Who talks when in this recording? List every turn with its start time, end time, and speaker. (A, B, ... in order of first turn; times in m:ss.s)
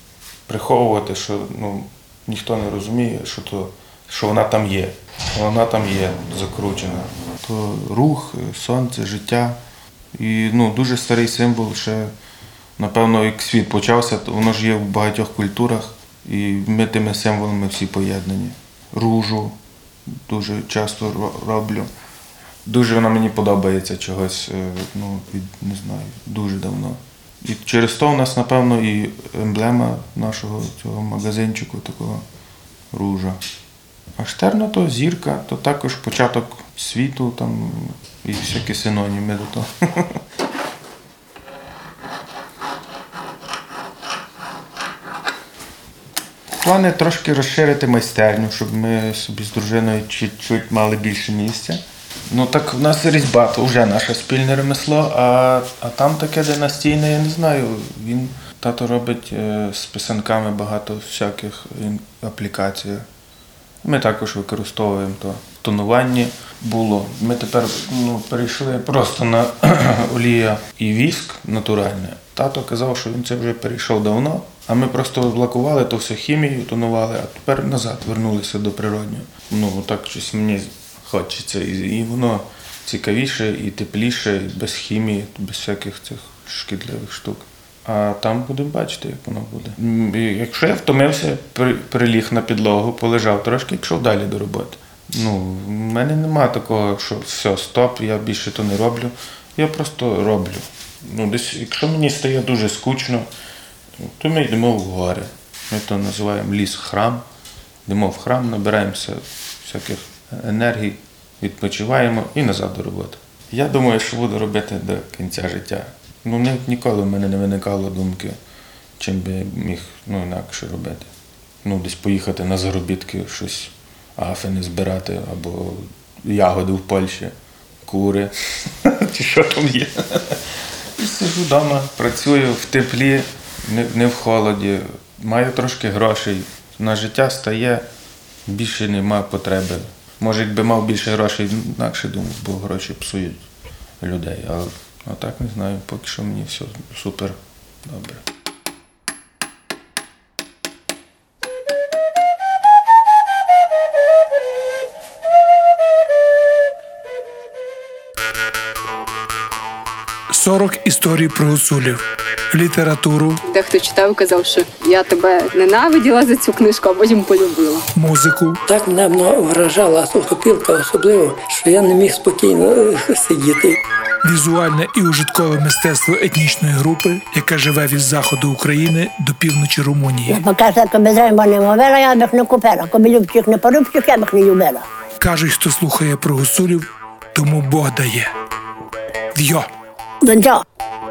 0:00.5-0:09.6 A
0:10.2-0:12.1 A
0:12.8-0:19.6 A
0:20.2-0:21.9 A
0:22.6-0:32.2 A
0:32.9-0:33.4 A
0:34.2-0:40.2 A
0:46.6-1:03.0 A
1:03.8-1:43.3 A
1:44.0-1:47.2 A
1:47.8-1:58.4 A
1:59.0-2:01.1 A
2:01.6-2:07.3 A
2:07.8-2:08.3 A
2:08.8-2:10.4 A
2:11.0-2:17.8 A
2:18.4-2:23.4 A
2:24.0-2:28.2 A
2:40.3-2:42.0 B
2:42.5-2:43.4 B
2:43.4-2:47.8 C
2:47.9-2:48.6 B
2:48.6-2:53.8 D
2:54.2-3:00.4 B
3:00.2-3:04.8 E
3:05.2-3:08.3 B
3:09.3-3:09.7 B
3:10.2-3:10.6 E